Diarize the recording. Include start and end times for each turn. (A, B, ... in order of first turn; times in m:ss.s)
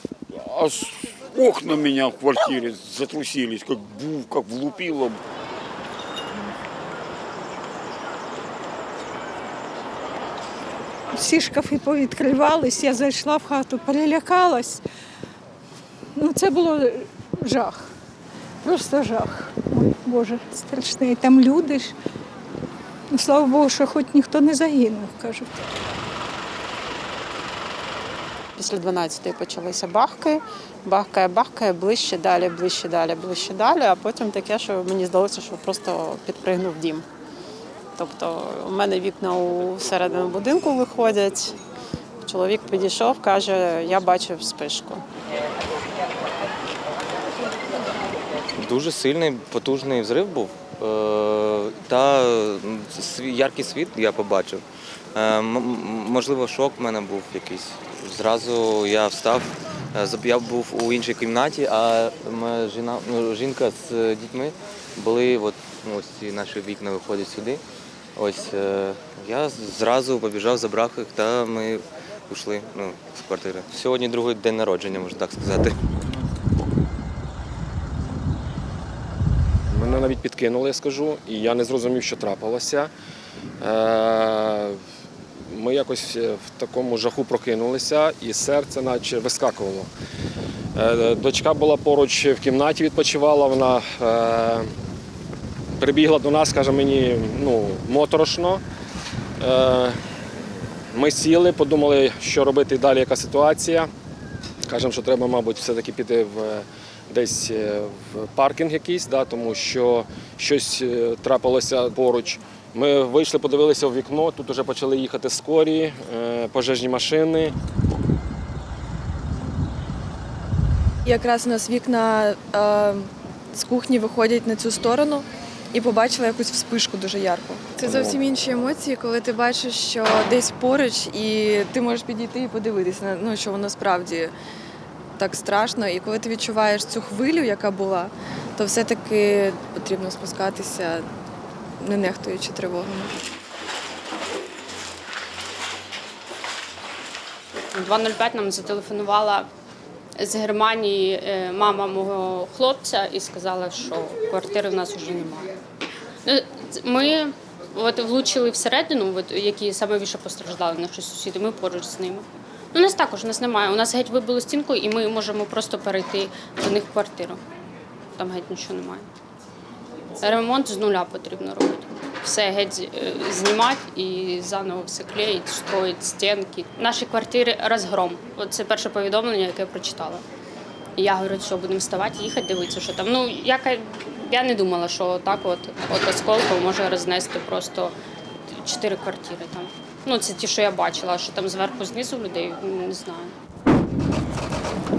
0:00.3-0:05.2 A
0:11.2-0:14.8 B
0:16.2-0:17.8 B
0:18.6-0:21.9 B
0:23.1-0:25.5 B
0:28.6-0:37.0 C
0:38.0-0:41.5 C
0:42.3-0:45.0 C
0:48.6-0:54.6 D
0:55.1-1:07.6 D
1:08.2-1:15.8 D
1:19.7-1:22.9 E
1:23.6-1:24.8 E
1:25.5-1:29.9 E
1:30.7-1:34.7 E
1:35.8-1:38.6 E
1:39.4-1:40.0 E
1:40.9-1:43.9 E
1:44.7-1:57.5 E
2:01.0-2:14.3 F
2:07.9-2:08.1 E
2:15.2-2:21.0 F
2:21.8-2:23.1 F
2:27.7-2:29.5 G
2:30.2-2:35.5 G
2:36.2-2:47.4 G
2:48.2-2:49.1 G
2:50.2-3:00.2 G
3:01.0-3:07.9 G
3:08.5-3:13.3 G